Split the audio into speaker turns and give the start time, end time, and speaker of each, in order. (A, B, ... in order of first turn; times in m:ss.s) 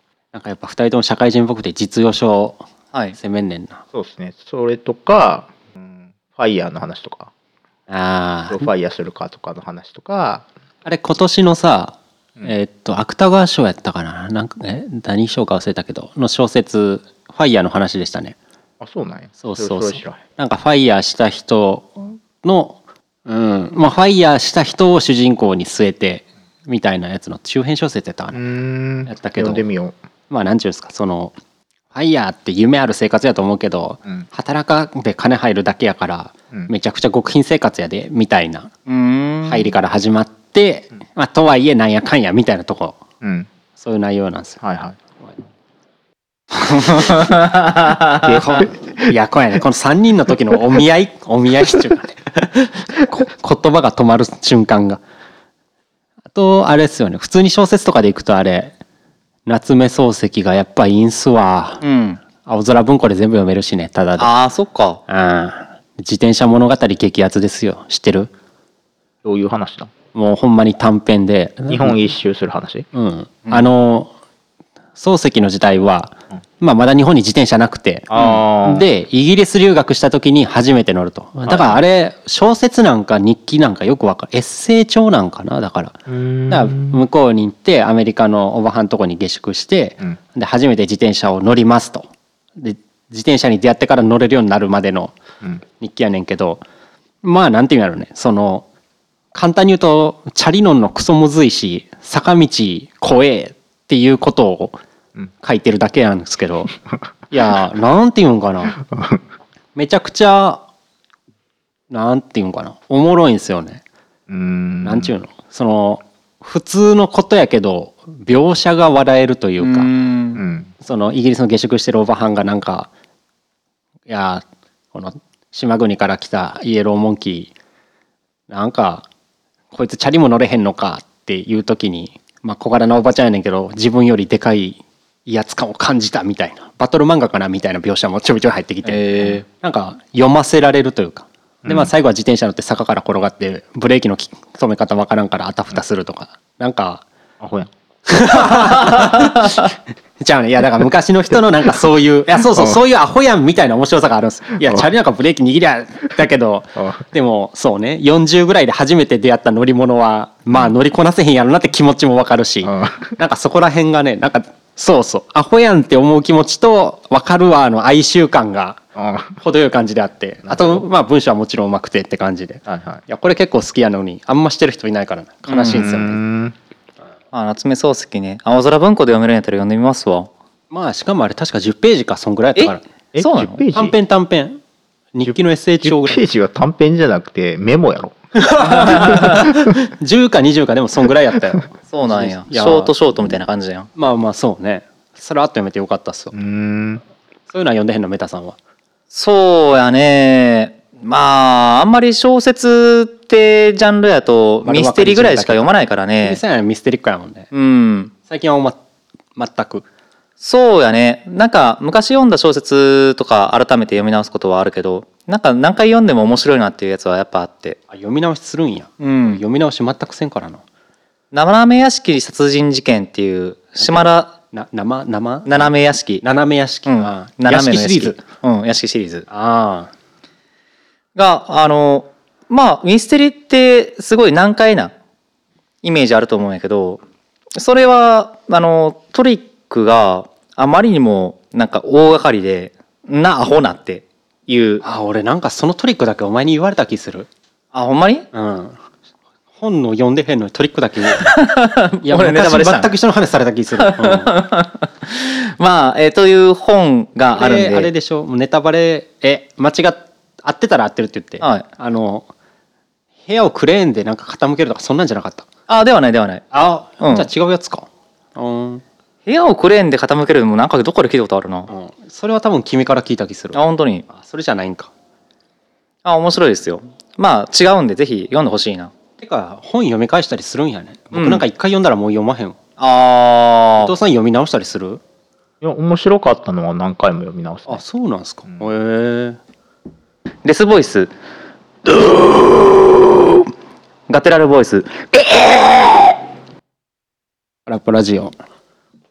0:00.3-0:02.6 A
0:03.2-0:03.8 A
0:03.9-0:07.3 B
0:07.9-0:08.7 A
0:08.5-0:10.4 B
0:10.8-0:18.4 A
0:18.8-0:20.2 B
0:19.4-0:28.4 A
0:28.3-0:29.9 B
0:29.1-0:29.6 A
0:30.3-0:31.3 A
0:31.9-0:38.7 A
0:38.9-0:39.7 C
0:39.5-0:43.0 A
0:43.2-0:43.5 B
0:43.8-0:44.6 A
0:44.6-0:45.0 B
0:46.5-0:47.3 A
0:47.0-0:48.4 C
0:48.2-0:48.7 B
0:48.2-0:55.0 A
0:56.3-0:58.7 A
0:59.5-1:01.8 A
1:01.8-1:02.2 C
1:02.4-1:04.3 A
1:04.2-1:05.0 C
1:05.1-1:08.3 A
1:09.2-1:09.9 B
1:10.1-1:12.0 A
1:11.7-1:12.9 B
1:12.9-1:14.1 A
1:13.5-1:13.7 C
1:15.0-1:35.2 A
1:18.1-1:18.8 B
1:21.4-1:21.8 B
1:26.1-1:27.0 B
1:35.8-1:36.6 A
1:37.2-1:38.6 A
1:39.3-1:44.8 A
1:45.4-1:46.7 A
1:47.3-1:48.8 A
1:48.8-1:49.2 B
1:49.8-1:50.6 A
1:51.9-1:53.8 A
1:54.3-1:55.1 B
1:54.8-1:59.9 A
1:59.6-2:00.4 C
2:00.4-2:00.7 B
2:00.8-2:02.9 A
2:04.1-2:07.5 A
2:08.5-2:09.1 A
2:09.7-2:27.0 A
2:18.9-2:19.4 C
2:21.6-2:21.9 B
2:27.4-2:27.7 B
2:28.1-2:29.6 A
2:30.2-2:48.8 A
2:32.5-2:32.8 B
2:34.6-2:34.9 B
2:42.6-2:43.2 B
2:49.0-2:49.4 B
2:49.4-2:56.2 A
2:50.4-2:50.8 B
2:52.7-2:53.0 B
2:55.5-2:55.9 C
2:55.7-2:56.6 B
2:57.3-3:00.3 C
3:00.7-3:02.8 A
3:02.6-3:03.6 C
3:03.1-3:04.0 B
3:03.7-3:04.6 A
3:05.1-3:06.2 A
3:05.2-3:08.2 B
3:08.4-3:12.9 A
3:08.8-3:09.4 C
3:11.9-3:13.9 C
3:14.0-3:16.4 A
3:16.3-3:17.0 B
3:17.5-3:18.6 A
3:19.1-3:26.4 C
3:24.6-3:25.7 A
3:26.2-3:27.5 A
3:27.5-3:28.1 C
3:28.3-3:28.8 A
3:29.4-3:29.8 A
3:30.4-3:37.8 C
3:37.9-3:40.6 A
3:39.0-3:39.4 C
3:41.3-3:44.3 C
3:43.8-3:48.2 A
3:45.5-3:46.2 C
3:46.9-3:49.3 C
3:49.3-3:49.9 A
3:51.2-3:54.9 C
3:55.8-3:57.0 C
3:57.6-4:04.8 C
4:04.8-4:07.3 A
4:07.7-4:08.3 C
4:08.3-4:08.8 A
4:09.6-4:11.3 A
4:11.2-4:12.9 C
4:12.0-4:14.3 A
4:13.8-4:17.9 C
4:17.4-4:22.3 A
4:23.3-4:25.5 A
4:25.7-4:26.4 C
4:26.5-4:28.8 A
4:27.0-4:27.3 C
4:29.3-4:31.7 C
4:31.7-4:34.9 A
4:33.5-4:34.0 C
4:36.0-4:38.9 C
4:39.2-4:42.6 A
4:41.1-4:41.4 C
4:42.8-4:44.0 C
4:43.8-4:45.0 A
4:45.6-4:47.8 B
4:47.7-4:49.4 A
4:50.4-4:51.1 C
4:51.9-4:53.1 C
4:54.1-4:56.2 C
4:57.7-4:58.3 A